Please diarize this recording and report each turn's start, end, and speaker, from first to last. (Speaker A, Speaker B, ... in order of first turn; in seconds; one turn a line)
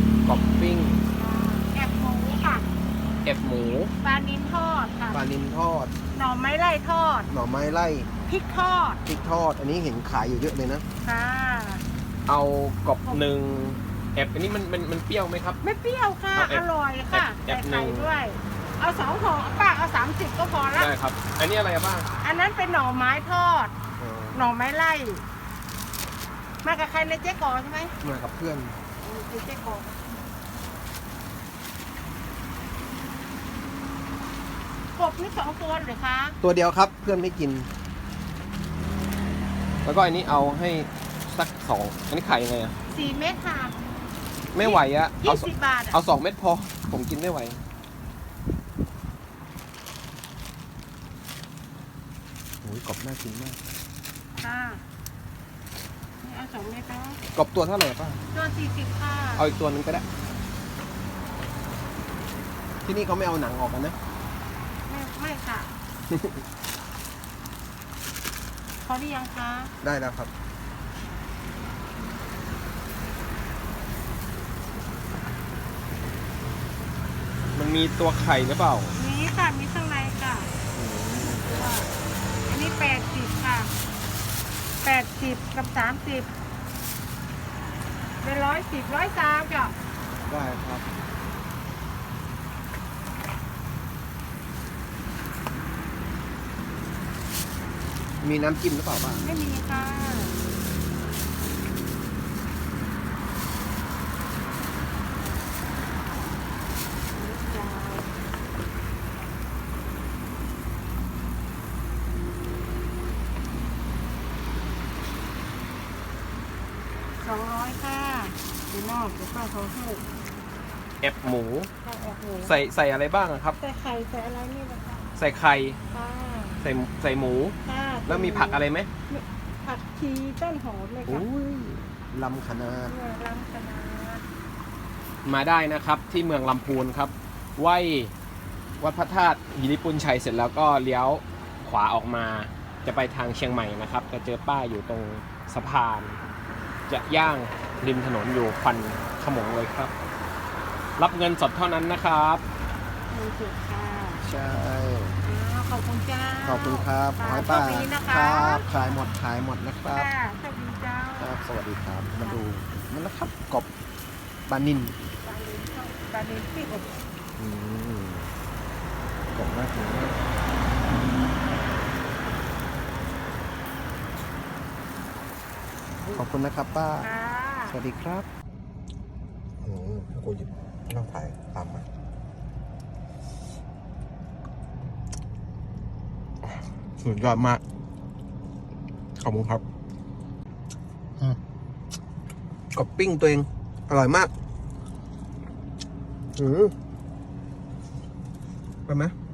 Speaker A: 0.2-1.0
Speaker B: 1.1-2.7
Speaker A: 3.2-3.9
Speaker B: 4.0-5.2
Speaker C: 5.1-5.9
Speaker B: 6.1-7.3
Speaker C: 7.3-8.1
Speaker B: 8.3-9.0
Speaker C: 9.1-10.8
Speaker B: 11.0-11.8
Speaker A: 12.3-15.6
Speaker B: 15.6-20.9
Speaker A: 16.4-18.1
Speaker A: 20.8-22.1
Speaker B: 22.2-23.7
Speaker C: 24.0-24.5
Speaker B: 24.3-25.2
Speaker B: 26.6-28.0
Speaker C: 28.0-28.8
Speaker B: 29.0-30.0
Speaker B: 35.0-36.4
Speaker C: 36.4-37.7
Speaker A: 39.8-42.7
Speaker B: 42.9-43.8
Speaker A: 44.5-47.6
Speaker B: 44.6-46.0
Speaker C: 52.6-53.6
Speaker B: 54.4-54.8
Speaker B: 56.2-57.2
Speaker C: 57.4-58.2
Speaker B: 58.3-59.5
Speaker C: 59.4-60.0
Speaker C: 62.9-64.0
Speaker B: 64.9-65.7
Speaker B: 68.8-69.7
Speaker C: 69.8-70.3
Speaker A: 77.5-79.0
Speaker B: 78.9-80.5
Speaker C: 80.8-81.4
Speaker B: 81.2-81.9
Speaker B: 82.5-83.7
Speaker B: 84.8-86.3
Speaker B: 88.2-89.8
Speaker C: 90.3-90.8
Speaker C: 98.2-99.2
Speaker B: 99.2-100.4
Speaker B: 107.1-108.2
Speaker B: 117.2-120.0
Speaker A: 121.0-121.7
Speaker B: 121.8-122.6
Speaker A: 122.4-123.6
Speaker B: 123.6-125.1
Speaker A: 125.2-125.8
Speaker B: 125.9-126.6
Speaker A: 126.6-127.6
Speaker B: 127.6-131.3
Speaker A: 128.1-128.9
Speaker C: 131.1-132.9
Speaker B: 132.9-134.2
Speaker A: 135.2-138.1
Speaker A: 138.8-146.2
Speaker A: 146.9-149.9
Speaker A: 151.0-152.4
Speaker B: 153.1-154.2
Speaker C: 154.2-155.2
Speaker B: 155.2-159.0
Speaker C: 156.4-160.1
Speaker B: 159.9-161.3
Speaker C: 161.2-163.7
Speaker C: 164.5-164.9
Speaker B: 165.2-167.0
Speaker C: 167.4-168.3
Speaker C: 169.3-170.2
Speaker C: 176.1-177.1
Speaker B: 177.0-177.8
Speaker C: 177.7-178.3
Speaker C: 179.6-181.8
Speaker C: 187.0-187.6
Speaker C: 189.2-189.6
Speaker C: 192.7-194.3
Speaker C: 196.4-196.8
Speaker C: 198.9-199.2